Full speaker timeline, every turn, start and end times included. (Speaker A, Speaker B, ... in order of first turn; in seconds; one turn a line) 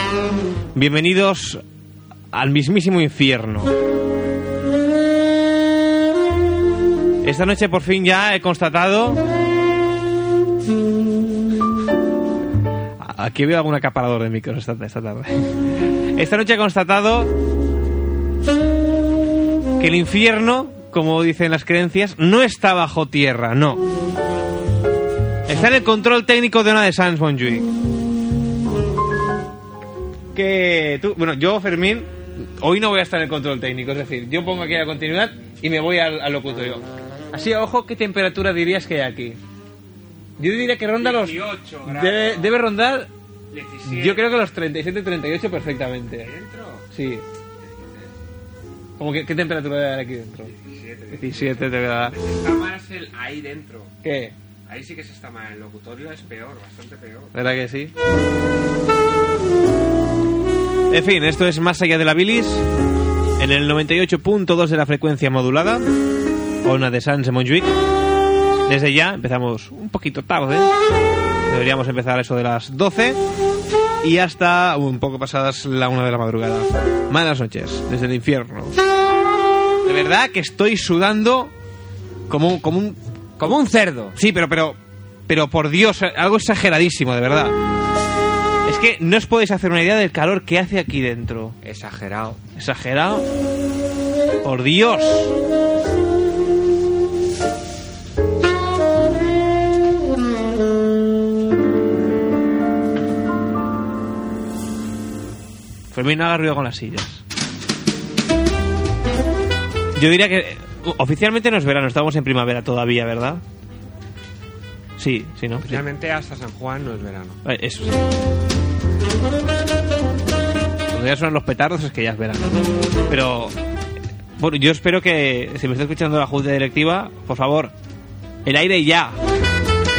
Speaker A: 0.7-1.6
Speaker A: 2.3-3.7
Speaker A: 7.2-9.2
Speaker A: 13.0-15.5
Speaker A: 16.1-17.3
Speaker A: 19.8-23.8
Speaker A: 25.5-27.7
Speaker A: 30.3-39.4
Speaker A: 40.4-43.1
Speaker B: 41.0-42.6
Speaker B: 43.5-44.2
Speaker A: 43.8-46.3
Speaker B: 46.1-46.9
Speaker A: 46.9-47.2
Speaker B: 47.6-48.1
Speaker A: 49.0-50.5
Speaker B: 50.5-54.0
Speaker A: 51.1-52.1
Speaker A: 54.0-54.3
Speaker B: 54.6-57.3
Speaker A: 57.3-57.9
Speaker A: 60.9-62.7
Speaker A: 63.4-65.8
Speaker A: 66.6-67.7
Speaker A: 68.7-70.7
Speaker A: 71.5-73.2
Speaker A: 74.0-78.8
Speaker A: 79.8-81.5
Speaker A: 82.3-83.0
Speaker B: 83.4-84.2
Speaker A: 84.2-84.8
Speaker A: 85.3-87.5
Speaker A: 88.7-91.6
Speaker B: 91.6-92.4
Speaker A: 92.5-93.2
Speaker A: 94.4-95.3
Speaker A: 105.9-107.2
Speaker A: 109.9-113.4
Speaker A: 115.0-115.8
Speaker B: 115.6-117.4
Speaker A: 117.4-117.9
Speaker A: 120.9-123.5
Speaker A: 124.4-127.7
Speaker A: 128.4-129.2